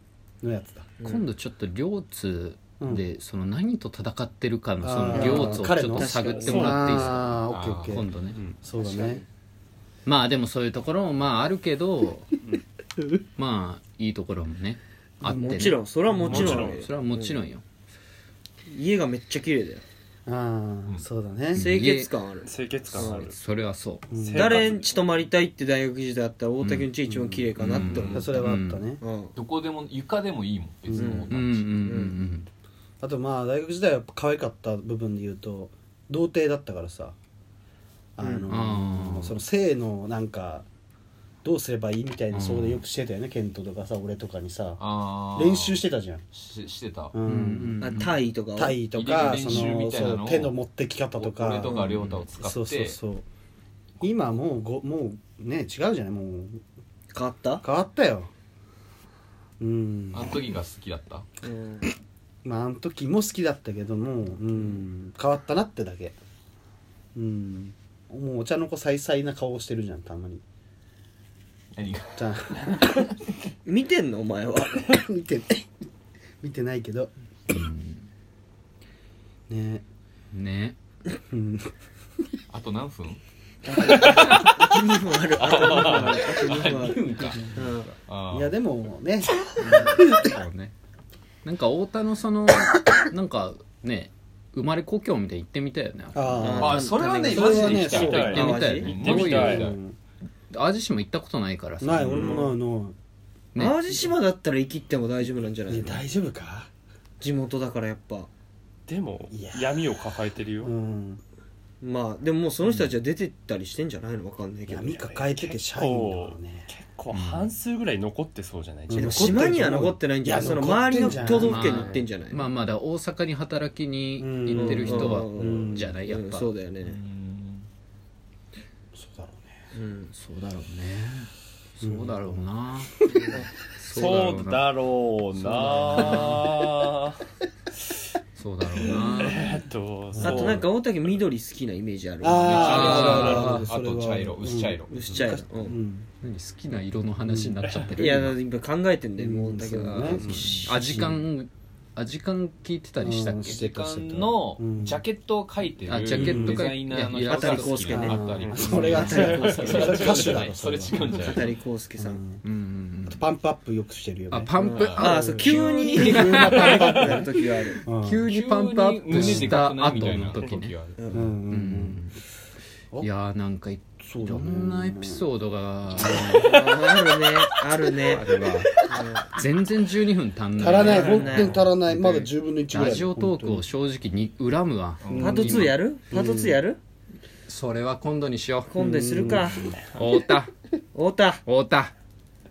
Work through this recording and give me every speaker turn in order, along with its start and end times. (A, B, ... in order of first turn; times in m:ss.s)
0:00.4-0:00.9 A
0:01.0-0:01.3 B
0:01.0-0:08.4 C
0:04.8-0:09.2 A
0:05.1-0:07.2 B
0:06.2-0:06.7 D
0:07.5-0:08.0 E
0:08.8-0:09.2 B
0:10.1-0:12.4 C
0:13.4-0:17.6 C
0:15.2-0:15.8 A
0:15.3-0:17.4 B
0:16.1-0:16.8 D
0:18.7-0:19.8 B
0:20.3-0:21.7 A
0:21.5-0:22.1 C
0:21.6-0:23.3 B
0:22.4-0:23.4 D
0:22.9-0:24.1 C
0:24.1-0:24.9 D
0:24.1-0:24.6 A
0:24.3-0:28.3 B
0:26.6-0:27.0 C
0:27.6-0:28.8 C
0:27.9-0:28.2 E
0:28.1-0:29.0 A
0:29.0-0:29.4 B
0:29.4-0:31.6 E
0:30.9-0:31.2 A
0:31.0-0:32.2 B
0:31.3-0:32.5 C
0:33.0-0:37.2 A
0:38.2-0:40.7 A
0:38.2-0:38.5 B
0:38.5-0:39.4 C
0:41.4-0:44.8 A
0:42.3-0:42.8 C
0:44.8-0:47.1 E
0:45.3-0:46.2 A
0:47.1-0:47.8 A
0:47.3-0:48.2 C
0:47.8-0:48.8 B
0:48.6-0:51.8 A
0:48.9-0:50.6 E
0:51.2-0:53.0 E
0:51.6-0:52.0 B
0:51.9-0:52.3 C
0:52.4-0:53.2 A
0:54.0-0:56.6 A
0:57.1-0:57.6 B
0:57.6-0:58.3 A
0:59.6-1:00.4 A
1:00.1-1:01.2 E
1:01.4-1:01.9 B
1:02.4-1:06.2 A
1:07.2-1:10.4 A
1:11.8-1:13.0 E
1:12.2-1:12.7 A
1:13.6-1:14.8 B
1:14.8-1:15.7 A
1:16.4-1:17.1 A
1:17.5-1:18.1 C
1:19.5-1:19.8 A
1:20.3-1:20.8 C
1:21.3-1:21.7 A
1:22.5-1:23.2 E
1:23.6-1:27.9 B
1:25.4-1:28.6 E
1:28.3-1:29.3 A
1:29.6-1:30.7 E
1:29.6-1:30.2 C
1:31.4-1:39.8 C
1:36.1-1:38.4 A
1:36.4-1:38.9 B
1:36.6-1:39.8 E
1:37.3-1:39.7 D
1:39.3-1:40.0 A
1:40.5-1:42.3 C
1:41.8-1:43.0 A
1:42.1-1:42.5 B
1:43.6-1:46.0 B
1:45.7-1:46.7 A
1:47.2-1:48.3 B
1:48.9-1:50.7 D
1:49.3-1:49.8 A
1:50.6-1:51.2 A
1:51.8-1:55.1 B
1:54.7-1:56.7 A
1:55.3-1:59.6 D
1:57.1-1:57.5 C
1:58.9-2:01.8 A
1:59.0-2:02.5 B
2:01.0-2:06.5 C
2:04.2-2:05.9 A
2:04.5-2:07.0 B
2:06.8-2:07.7 E
2:09.0-2:09.5 A
2:09.7-2:10.1 B
2:10.1-2:13.0 C
2:11.8-2:12.4 A
2:13.1-2:13.4 B
2:13.3-2:17.3 D
2:13.7-2:14.7 C
2:15.4-2:16.5 C
2:15.9-2:16.2 A
2:18.4-2:19.6 C
2:18.8-2:20.7 D
2:20.1-2:20.6 A
2:20.2-2:23.5 B
2:22.2-2:26.1 A
2:22.4-2:24.9 E
2:22.6-2:23.7 C
2:24.9-2:25.8 B
2:26.2-2:28.4 C
2:27.3-2:27.6 A
2:27.6-2:27.9 D
2:27.9-2:30.3 B
2:29.2-2:31.3 A
2:29.9-2:33.5 C
2:30.2-2:30.5 D
2:30.2-2:30.8 E
2:33.0-2:35.0 A
2:33.4-2:41.5 E
2:35.9-2:39.3 C
2:36.1-2:36.7 A
2:37.2-2:40.4 B
2:38.0-2:41.3 A
2:38.7-2:39.9 D
2:40.2-2:40.5 C
2:41.0-2:42.2 B
2:42.0-2:42.4 A
2:42.4-2:43.2 C
2:43.1-2:47.3 A
2:44.3-2:46.9 C
2:44.6-2:47.8 B
2:44.8-2:45.2 E
2:47.8-2:48.2 A
2:48.0-2:52.2 C
2:48.3-2:51.0 E
2:49.1-2:49.5 A
2:50.0-2:50.6 D
2:51.0-2:51.2 B
2:51.1-2:52.1 A
2:53.0-2:56.3 C
2:54.0-2:55.2 A
2:56.0-2:56.4 A
2:56.2-2:56.6 D
2:56.3-2:58.2 B
2:58.1-2:58.7 C
2:58.9-2:59.3 B
2:59.3-3:05.7 C
3:00.6-3:03.6 A
3:00.6-3:01.6 B
3:05.0-3:05.7 E
3:05.1-3:06.6 A
3:05.2-3:06.8 B
3:07.5-3:10.5 C
3:08.7-3:09.8 B
3:08.8-3:09.7 A
3:10.9-3:11.4 B
3:11.5-3:11.9 C